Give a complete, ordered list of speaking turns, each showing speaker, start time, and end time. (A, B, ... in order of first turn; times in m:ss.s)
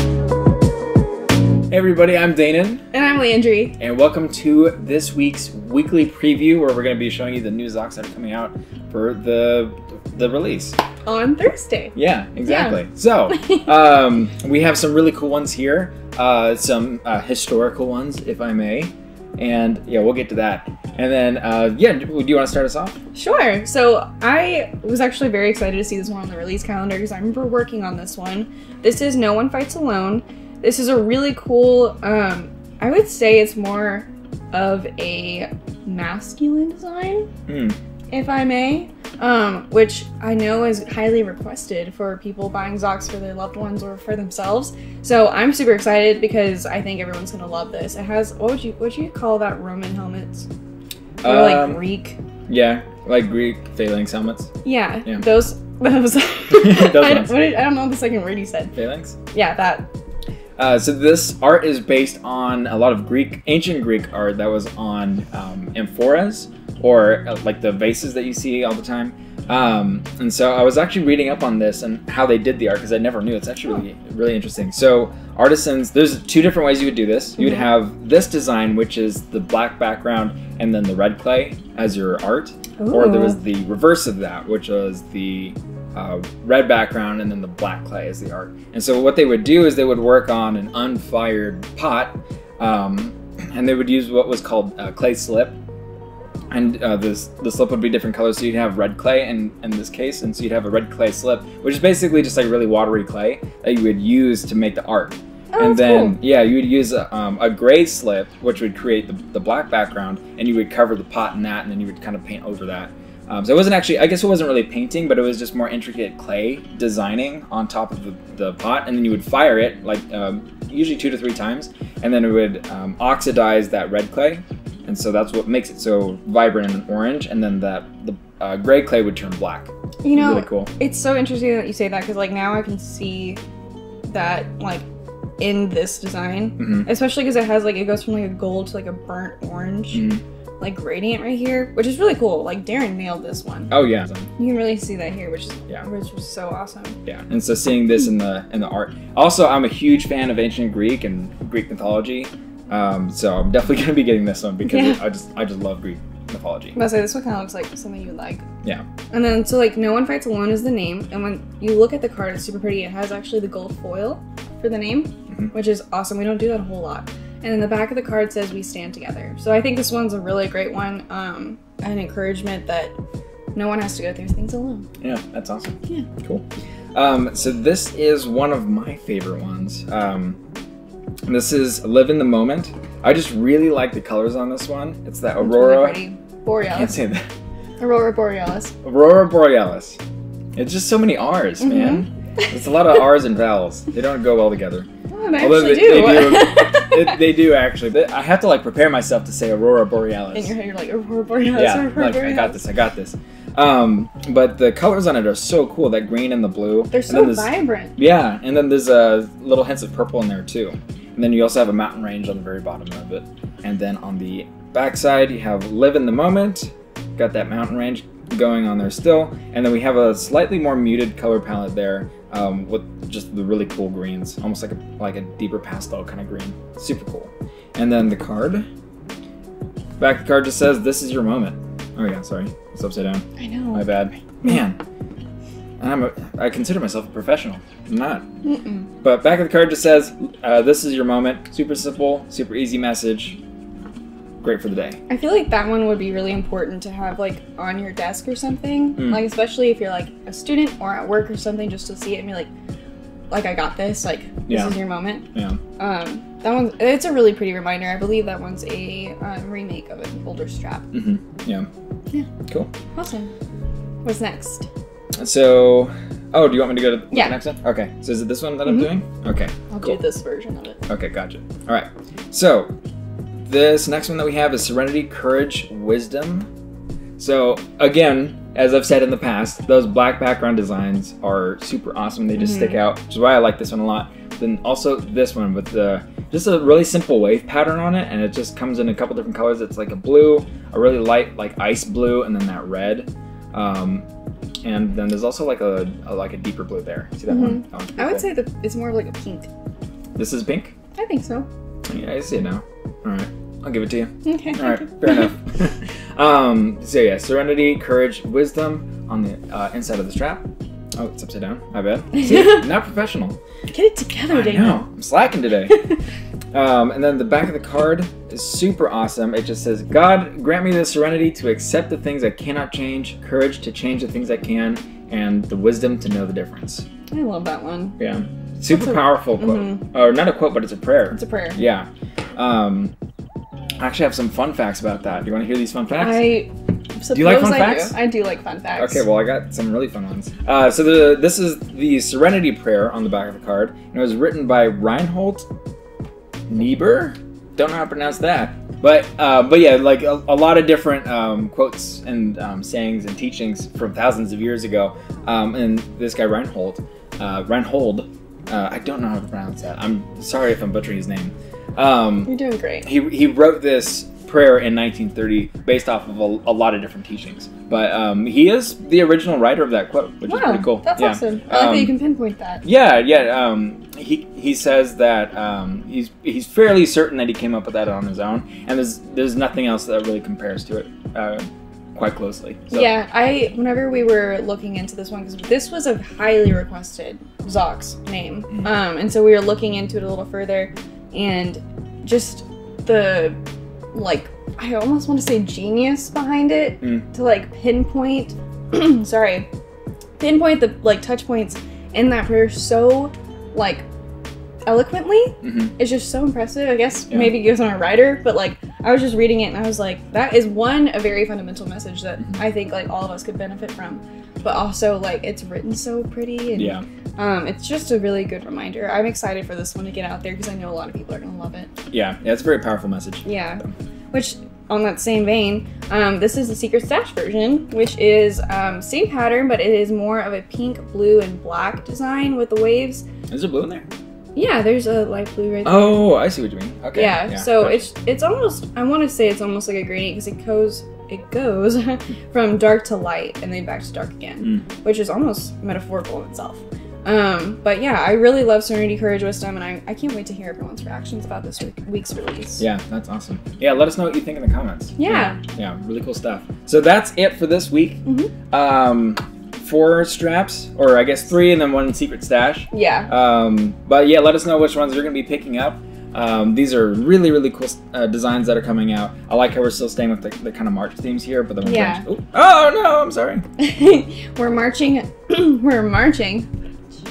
0:01.7-0:02.8 A
0:02.9-0:03.8 B
0:03.8-0:10.8 A
0:11.0-0:11.9 B
0:12.0-0:23.0 A
0:12.4-0:12.8 B
0:13.4-0:13.6 B
0:23.1-0:37.3 B
0:37.5-0:37.8 A
0:38.1-0:50.5 B
0:51.2-0:51.8 A
0:51.2-0:52.2 B
0:52.5-0:54.5 A
0:54.6-0:58.7 B
0:56.5-0:57.3 A
0:58.8-0:59.2 A
0:59.3-0:59.9 B
1:00.6-1:35.6 A
1:22.8-1:23.4 B
1:36.5-2:10.7 A
1:45.5-1:46.2 B
2:10.0-2:13.4 B
2:14.1-2:14.8 B
2:15.4-2:20.1 B
2:16.6-2:16.9 A
2:19.9-2:20.2 A
2:20.6-2:23.7 B
2:23.7-2:24.3 A
2:24.4-2:27.0 B
2:27.1-2:36.8 A
2:34.6-2:35.0 B
2:36.8-2:38.4 B
2:39.1-2:52.9 B
2:53.6-2:54.9 B
2:55.0-2:56.4 A
2:57.0-3:00.4 A
3:01.3-3:06.0 A
3:05.4-3:07.0 B
3:06.7-3:07.3 A
3:07.8-3:08.7 B
3:08.8-3:10.0 A
3:10.6-3:14.9 A
3:11.6-3:12.0 B
3:15.1-3:17.2 B
3:15.4-3:20.5 A
3:20.3-3:22.6 B
3:21.4-3:48.6 A
3:26.9-3:28.0 B
3:50.0-3:54.8 A
3:53.4-3:54.0 B
3:55.8-3:58.2 A
3:58.4-3:58.9 B
3:59.0-4:03.4 A
4:04.4-4:05.0 A
4:05.1-4:12.5 B
4:13.3-4:15.2 B
4:14.5-4:14.8 A
4:15.3-4:15.6 A
4:15.8-4:20.9 B
4:20.9-4:21.7 A
4:22.9-4:23.3 B
4:24.0-4:24.7 B
4:25.2-4:30.0 A
4:27.1-4:27.4 B
4:29.7-4:30.8 B
4:30.9-4:32.7 A
4:33.4-4:36.5 A
4:37.2-4:54.0 A
4:42.4-4:42.8 B
4:54.6-4:58.3 A
4:57.3-4:59.5 B
5:00.2-5:00.7 A
5:01.0-5:01.5 B
5:01.9-5:10.4 A
5:04.2-5:04.9 B
5:11.0-5:13.4 A
5:12.2-5:12.6 B
5:13.7-5:14.8 B
5:14.3-5:15.8 A
5:16.5-5:26.8 A
5:27.1-5:28.0 B
5:28.0-5:32.9 A
5:28.7-5:29.8 B
5:31.1-5:31.6 B
5:33.8-5:36.3 A
5:36.0-5:39.0 B
5:37.1-5:38.0 A
5:38.8-5:45.5 A
5:46.5-6:02.3 A
6:02.3-6:02.9 B
6:02.8-6:11.9 A
6:10.3-6:12.6 B
6:12.6-6:22.9 A
6:22.7-6:33.4 B
6:33.9-6:39.5 B
6:40.2-6:43.8 B
6:44.7-7:01.7 B
6:45.4-6:45.7 A
6:47.1-6:47.4 A
6:56.5-6:56.8 A
7:01.9-7:03.7 A
7:03.2-7:13.0 B
7:13.3-7:13.9 A
7:14.4-7:16.2 B
7:15.6-7:17.8 A
7:16.9-7:32.6 B
7:32.6-7:53.4 A
7:35.0-7:35.4 B
7:38.0-7:38.3 B
7:42.7-7:43.1 B
7:51.6-7:52.0 B
7:53.6-7:56.5 B